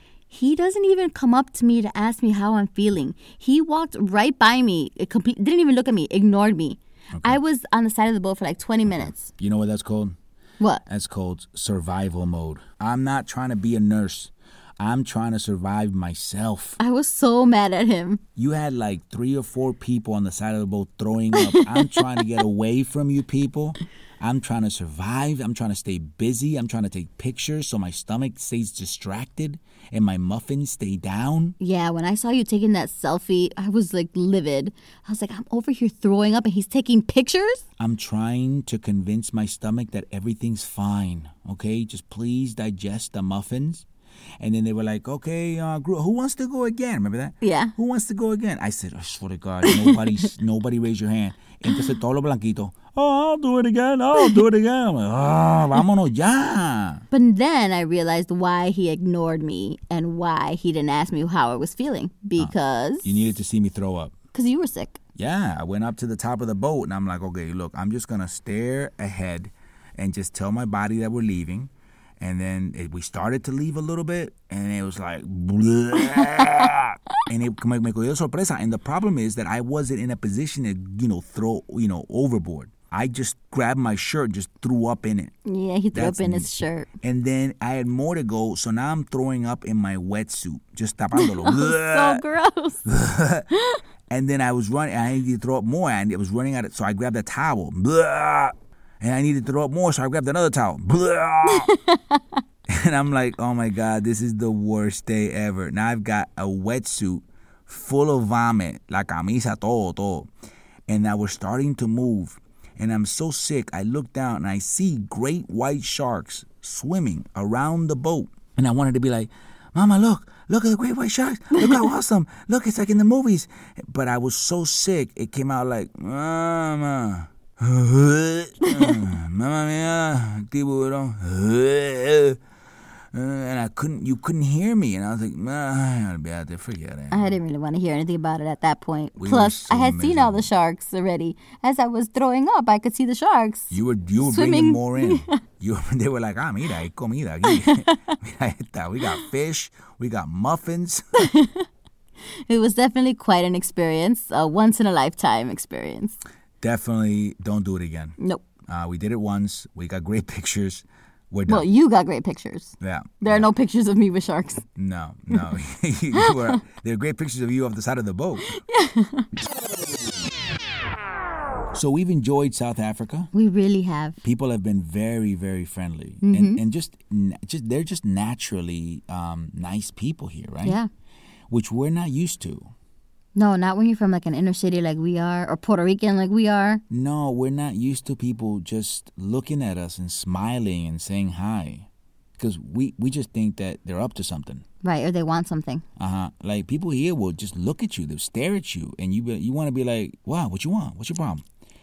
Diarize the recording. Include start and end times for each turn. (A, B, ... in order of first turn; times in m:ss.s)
0:00.3-0:09.3 A
0:07.1-0:07.4 B
0:08.8-0:10.1 B
0:10.6-0:10.8 A
0:10.9-0:16.8 B
0:16.8-0:18.2 A
0:18.4-0:31.6 B
0:21.3-0:22.3 A
0:31.6-0:37.6 A
0:37.8-0:43.8 B
0:44.4-0:57.0 B
0:47.4-0:47.7 A
0:49.6-0:50.2 A
0:57.1-1:03.3 A
1:02.4-1:04.2 B
1:04.3-1:05.0 A
1:05.2-1:25.3 B
1:16.1-1:16.6 A
1:25.4-1:26.9 A
1:25.9-1:32.2 B
1:31.1-1:32.8 A
1:32.8-1:33.5 B
1:34.1-1:41.7 B
1:41.4-1:42.4 A
1:42.7-1:50.3 B
1:50.9-2:12.4 B
2:08.6-2:09.0 A
2:13.1-2:17.4 B
2:17.1-2:25.4 A
2:19.2-2:20.5 B
2:23.7-2:31.2 B
2:27.4-2:28.1 A
2:31.2-2:31.7 A
2:32.3-2:36.2 A
2:36.6-2:41.7 B
2:38.2-2:38.4 A
2:41.5-2:44.6 A
2:42.8-2:43.5 B
2:44.8-2:48.6 B
2:46.1-2:46.6 A
2:48.5-2:49.3 A
2:51.7-2:53.3 B
2:53.3-2:54.2 A
2:54.2-3:00.8 B
2:56.2-2:56.6 A
3:00.6-3:00.9 A
3:01.5-3:02.7 B
3:03.3-3:06.8 A
3:06.9-3:14.6 B
3:14.8-3:15.8 A
3:16.0-3:21.4 B